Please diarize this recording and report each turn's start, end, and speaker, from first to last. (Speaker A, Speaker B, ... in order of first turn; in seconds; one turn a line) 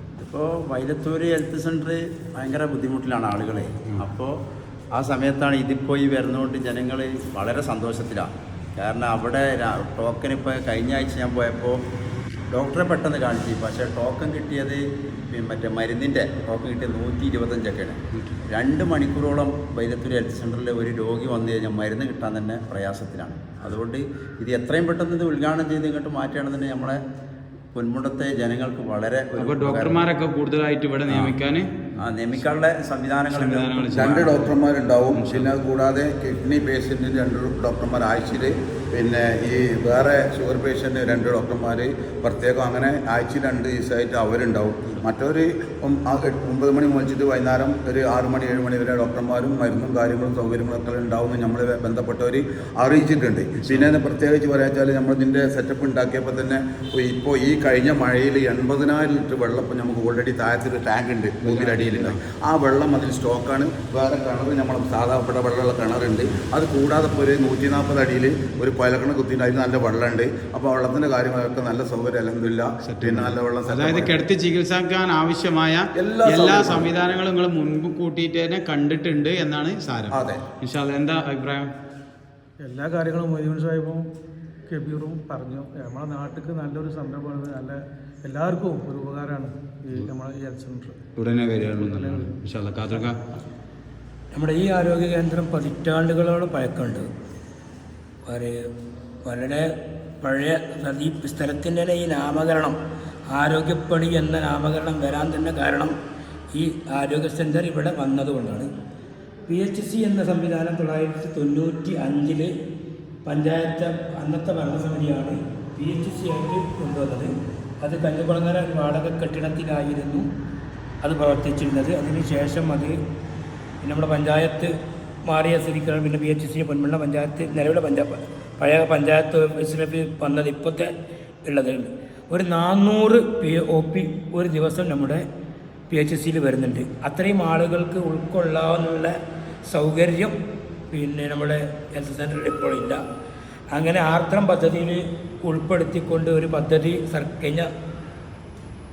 Speaker A: 0.2-4.4
Speaker A: 4.9-11.8
Speaker A: 12.5-27.0
Speaker B: 18.1-18.4
Speaker A: 27.7-30.0
Speaker B: 29.4-31.7
Speaker A: 31.1-31.3
Speaker A: 32.0-34.3
Speaker B: 33.3-34.5
Speaker C: 33.9-74.2
Speaker B: 35.1-35.5
Speaker B: 53.6-53.9
Speaker B: 61.4-62.2
Speaker B: 72.8-81.7
Speaker C: 76.0-76.9
Speaker C: 80.1-80.4
Speaker D: 82.6-84.0
Speaker D: 84.7-91.0
Speaker B: 91.2-93.2
Speaker D: 91.6-92.3
Speaker E: 94.3-97.1
Speaker E: 98.2-98.7
Speaker E: 99.2-102.8
Speaker E: 103.3-105.9
Speaker E: 106.5-108.7
Speaker E: 109.5-112.5
Speaker E: 113.2-120.3
Speaker E: 121.0-123.0
Speaker E: 123.8-124.7
Speaker E: 125.2-130.9
Speaker E: 131.4-135.2
Speaker E: 135.9-139.2
Speaker E: 139.7-140.4
Speaker E: 140.9-143.0
Speaker E: 143.7-147.7